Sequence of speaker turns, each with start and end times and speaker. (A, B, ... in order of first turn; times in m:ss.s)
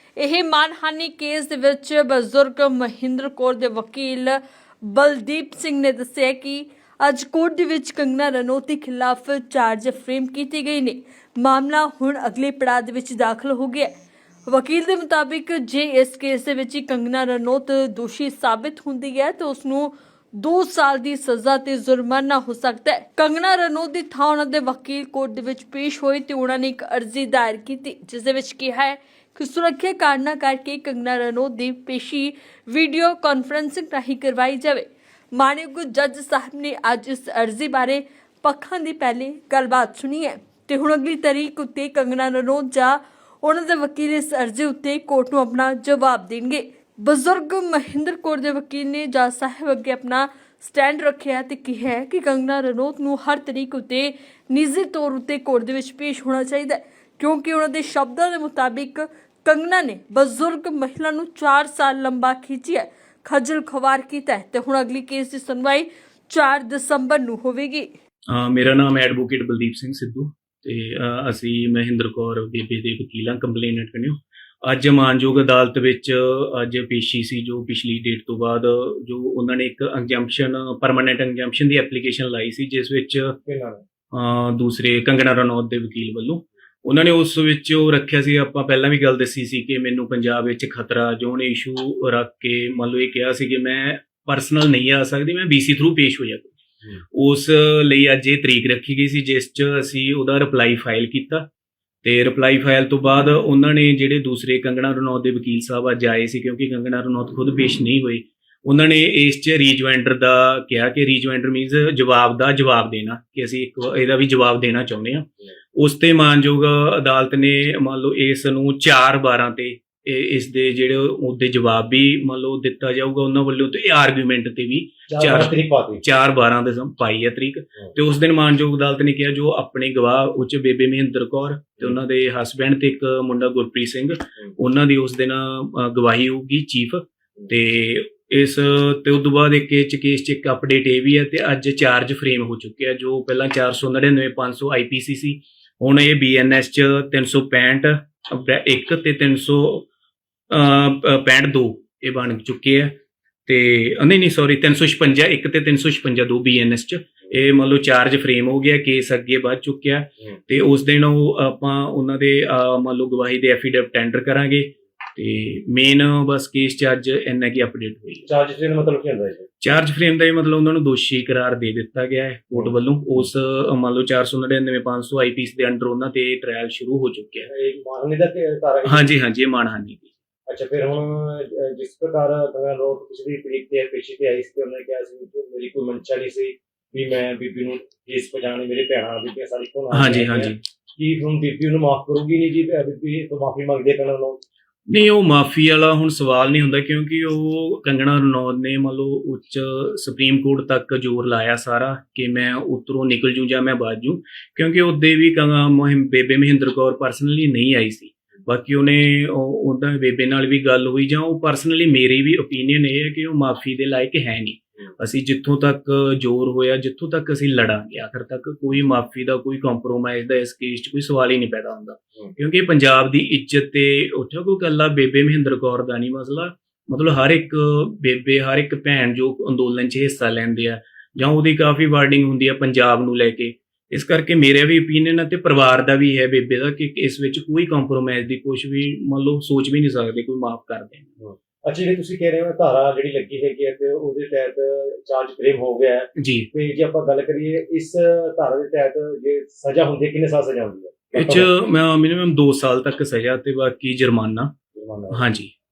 0:00.2-0:13.9 A
0:14.5-1:07.9 A
1:08.3-1:23.4 B
1:23.4-1:23.8 C
1:24.1-1:36.5 B
1:37.1-1:41.5 B
1:42.0-2:29.9 B
2:05.1-2:06.0 C
2:30.5-2:33.0 B
2:33.5-2:48.2 B
2:48.2-2:49.5 C
2:49.6-2:57.5 B
2:57.5-2:59.1 C
2:58.8-3:00.1 B
3:00.5-3:14.4 C
3:09.9-3:10.6 B
3:14.9-4:01.1 B
4:01.2-4:11.5 C
4:06.2-4:06.5 B
4:11.1-4:14.5 B
4:14.7-4:15.3 C
4:15.1-4:15.5 B